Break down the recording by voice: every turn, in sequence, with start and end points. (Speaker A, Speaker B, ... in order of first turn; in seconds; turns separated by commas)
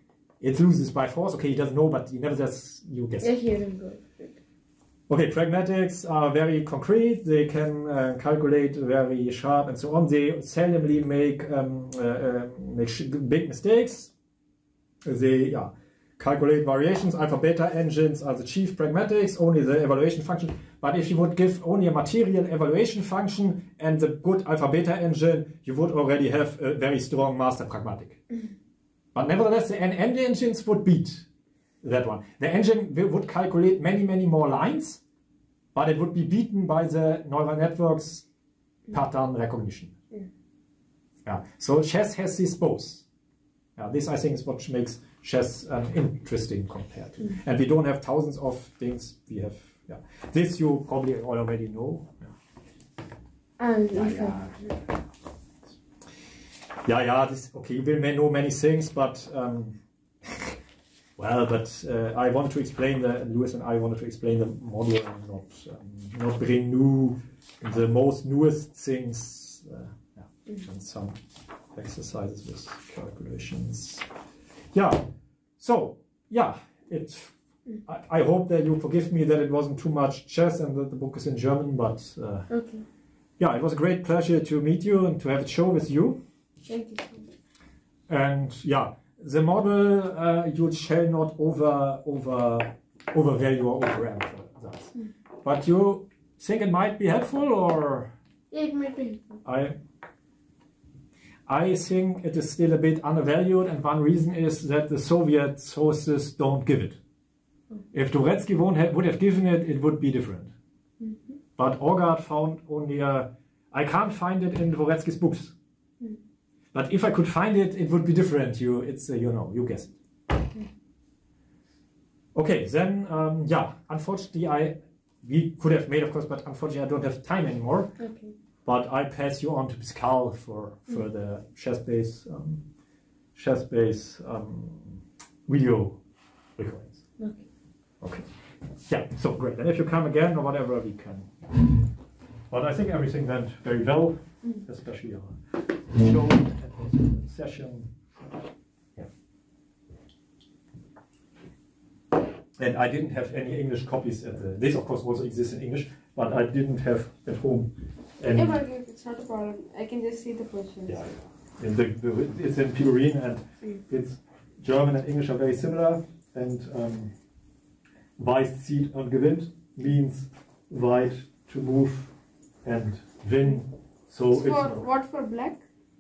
Speaker A: 0.4-3.3, Speaker B: 3.2-4.4, Speaker A: 5.1-14.1, Speaker A: 15.1-28.2, Speaker A: 29.1-31.3, Speaker A: 31.8-35.0, Speaker A: 35.7-38.3, Speaker A: 38.9-39.9, Speaker A: 41.2-43.1, Speaker A: 43.8-52.3, Speaker B: 53.6-54.8, Speaker A: 53.9-54.8, Speaker A: 56.9-60.6, Speaker A: 61.2-71.2, Speaker A: 71.7-74.1, Speaker A: 74.7-75.1, Speaker A: 75.6-77.3, Speaker A: 77.9-82.5, Speaker B: 82.5-82.8, Speaker A: 83.4-86.2, Speaker B: 86.7-87.3, Speaker A: 88.1-94.9, Speaker A: 95.4-98.1, Speaker B: 98.5-99.4, Speaker A: 99.5-99.8, Speaker A: 101.5-107.0, Speaker A: 107.9-110.5, Speaker B: 111.0-111.4, Speaker A: 111.6-115.5, Speaker A: 116.7-120.0, Speaker A: 122.3-127.9, Speaker B: 128.0-128.3, Speaker A: 128.6-132.6, Speaker A: 133.3-136.0, Speaker A: 136.6-137.0, Speaker B: 137.2-137.4, Speaker A: 138.0-138.3, Speaker A: 138.9-141.7, Speaker A: 142.5-147.9, Speaker A: 152.6-158.6, Speaker B: 158.3-161.0, Speaker A: 160.9-167.1, Speaker A: 168.2-172.1, Speaker A: 172.6-174.9, Speaker B: 174.3-175.7